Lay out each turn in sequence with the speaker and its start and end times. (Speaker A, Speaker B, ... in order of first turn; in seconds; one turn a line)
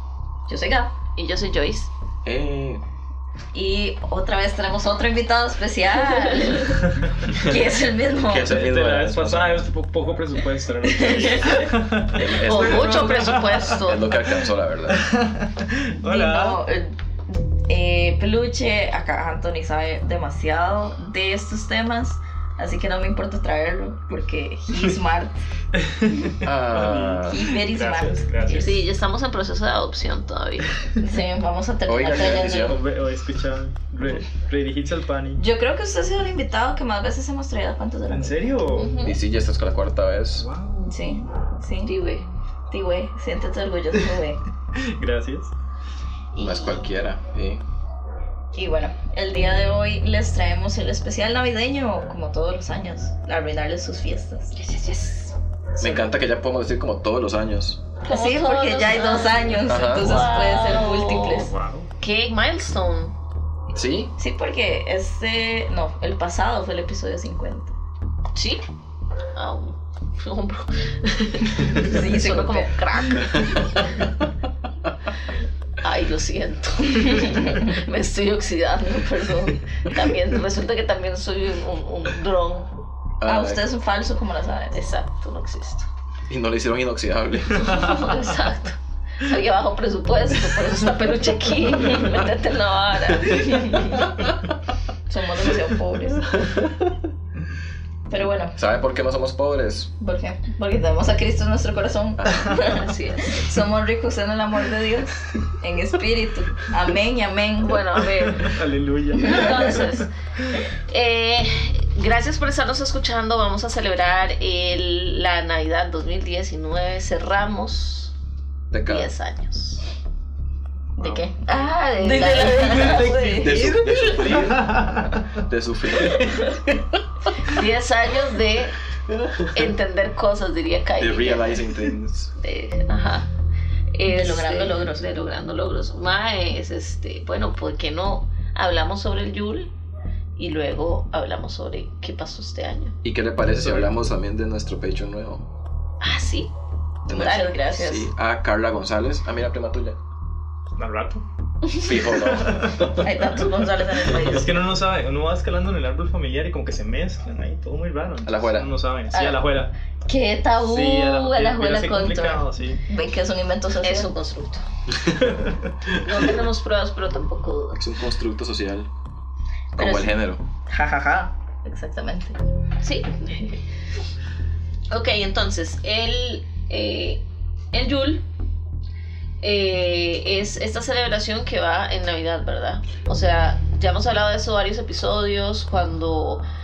Speaker A: 0.5-0.9
Speaker B: 1.2-1.9
Speaker C: 2.2-2.8
Speaker A: 3.5-8.6
Speaker B: 6.1-6.5
Speaker C: 7.3-7.7
Speaker C: 8.3-9.7
Speaker D: 8.4-13.8
Speaker A: 10.8-11.7
Speaker C: 12.1-13.2
Speaker B: 12.4-14.2
Speaker C: 13.8-15.0
Speaker D: 14.9-16.6
Speaker A: 16.0-25.3
Speaker D: 25.8-28.8
Speaker C: 26.4-27.5
Speaker A: 27.3-28.7
Speaker B: 28.4-30.7
Speaker A: 31.0-32.8
Speaker C: 31.9-32.8
Speaker D: 32.1-35.4
Speaker A: 35.4-38.7
Speaker D: 38.1-38.9
Speaker B: 38.7-39.2
Speaker C: 39.0-40.5
Speaker D: 40.4-41.0
Speaker A: 40.9-41.9
Speaker B: 41.8-42.2
Speaker A: 42.7-44.4
Speaker D: 44.8-45.5
Speaker A: 46.3-46.9
Speaker C: 46.4-47.6
Speaker A: 48.5-54.6
Speaker B: 54.5-55.3
Speaker A: 55.8-56.1
Speaker C: 55.8-57.8
Speaker B: 58.0-63.1
Speaker A: 58.1-61.5
Speaker C: 59.6-60.3
Speaker D: 61.4-61.9
Speaker C: 63.7-64.1
Speaker A: 64.2-67.7
Speaker B: 68.3-68.6
Speaker B: 69.3-73.8
Speaker A: 71.7-73.2
Speaker B: 75.8-82.7
Speaker A: 76.9-77.6
Speaker C: 83.2-83.6
Speaker A: 83.2-84.8
Speaker B: 84.7-85.9
Speaker C: 86.3-88.0
Speaker B: 87.6-93.8
Speaker A: 93.3-94.1
Speaker A: 95.1-96.3
Speaker C: 96.3-96.9
Speaker A: 98.1-98.6
Speaker C: 98.5-99.9
Speaker A: 100.0-107.8
Speaker C: 102.2-102.5
Speaker B: 102.7-103.3
Speaker B: 107.6-108.6
Speaker D: 108.1-110.6
Speaker A: 109.1-109.8
Speaker B: 109.2-110.1
Speaker B: 110.9-118.1
Speaker C: 118.7-119.1
Speaker B: 118.8-119.9
Speaker A: 121.0-123.5
Speaker B: 121.5-123.8
Speaker D: 122.4-125.3
Speaker C: 123.3-127.0
Speaker B: 127.4-128.8
Speaker C: 129.1-129.6
Speaker B: 129.4-131.7
Speaker C: 131.0-132.3
Speaker B: 132.4-133.3
Speaker B: 133.9-139.7
Speaker A: 134.1-135.1
Speaker B: 140.4-142.9
Speaker C: 143.0-145.5
Speaker B: 146.0-146.5
Speaker C: 147.0-150.0
Speaker A: 147.1-148.1
Speaker B: 147.1-147.6
Speaker D: 150.8-151.2
Speaker C: 151.8-153.1
Speaker D: 152.1-153.0
Speaker A: 153.0-154.6
Speaker D: 154.1-159.7
Speaker C: 158.2-158.7
Speaker A: 159.1-159.4
Speaker A: 160.1-164.1
Speaker D: 160.6-162.8
Speaker B: 163.8-164.6
Speaker D: 165.2-165.9
Speaker B: 166.0-167.8
Speaker C: 167.7-168.9
Speaker C: 169.8-170.4
Speaker A: 169.8-170.1
Speaker A: 170.7-172.3
Speaker B: 172.8-173.6
Speaker B: 174.9-178.2
Speaker B: 179.4-186.4